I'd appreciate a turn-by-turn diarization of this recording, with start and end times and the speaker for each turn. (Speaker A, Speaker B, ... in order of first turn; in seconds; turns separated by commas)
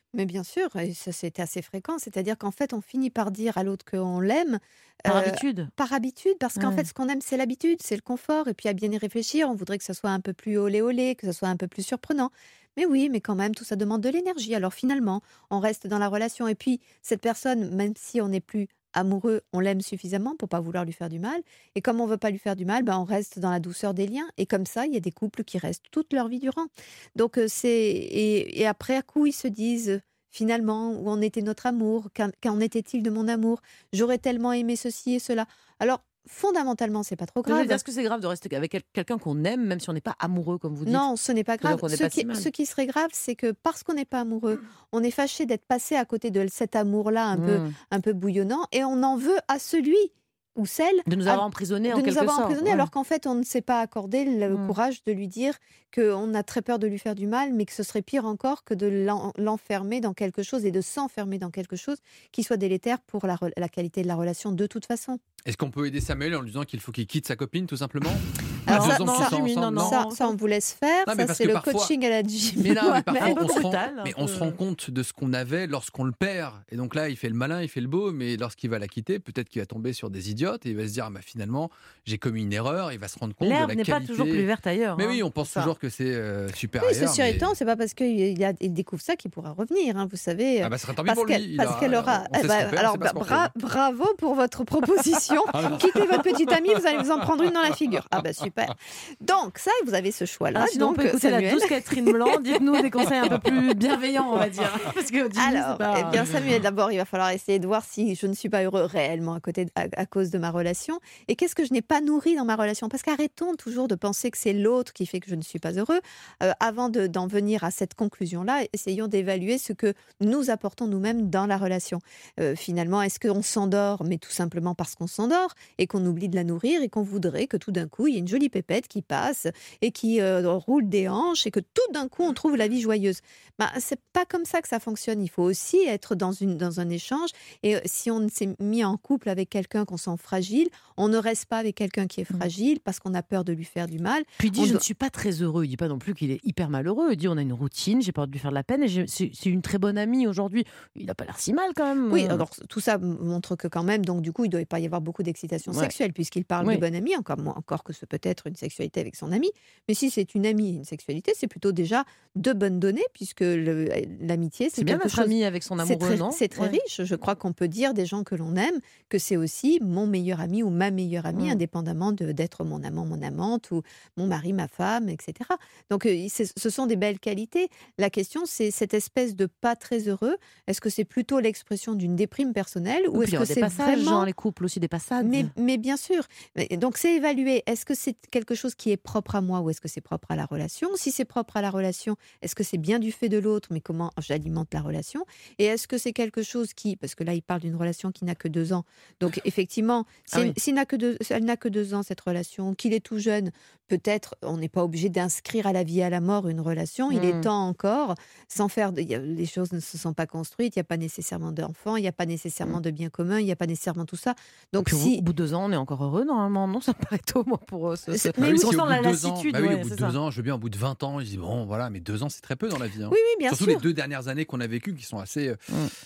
Speaker A: 0.1-37.8, Speaker B: 5.0-5.7, Speaker B: 6.6-6.9, Speaker B: 37.5-41.1, Speaker A: 40.9-65.2, Speaker B: 41.6-42.5, Speaker B: 47.3-47.7, Speaker B: 51.0-52.9, Speaker B: 54.5-54.7, Speaker C: 65.4-70.0, Speaker A: 68.7-73.6, Speaker B: 68.7-70.3, Speaker C: 71.0-71.9, Speaker C: 72.6-87.5, Speaker B: 73.2-74.5, Speaker B: 83.4-85.2, Speaker A: 85.4-85.7, Speaker A: 86.8-102.8, Speaker C: 90.6-93.5, Speaker C: 95.5-96.2, Speaker B: 100.5-106.2, Speaker A: 105.3-144.8, Speaker B: 144.4-152.4, Speaker A: 152.1-184.3, Speaker B: 155.7-155.9, Speaker B: 164.8-166.8, Speaker B: 171.3-171.6, Speaker B: 183.1-185.5, Speaker A: 185.2-215.2, Speaker B: 207.1-207.5, Speaker B: 214.8-220.2, Speaker A: 218.1-218.8, Speaker C: 218.4-225.6, Speaker A: 223.1-223.8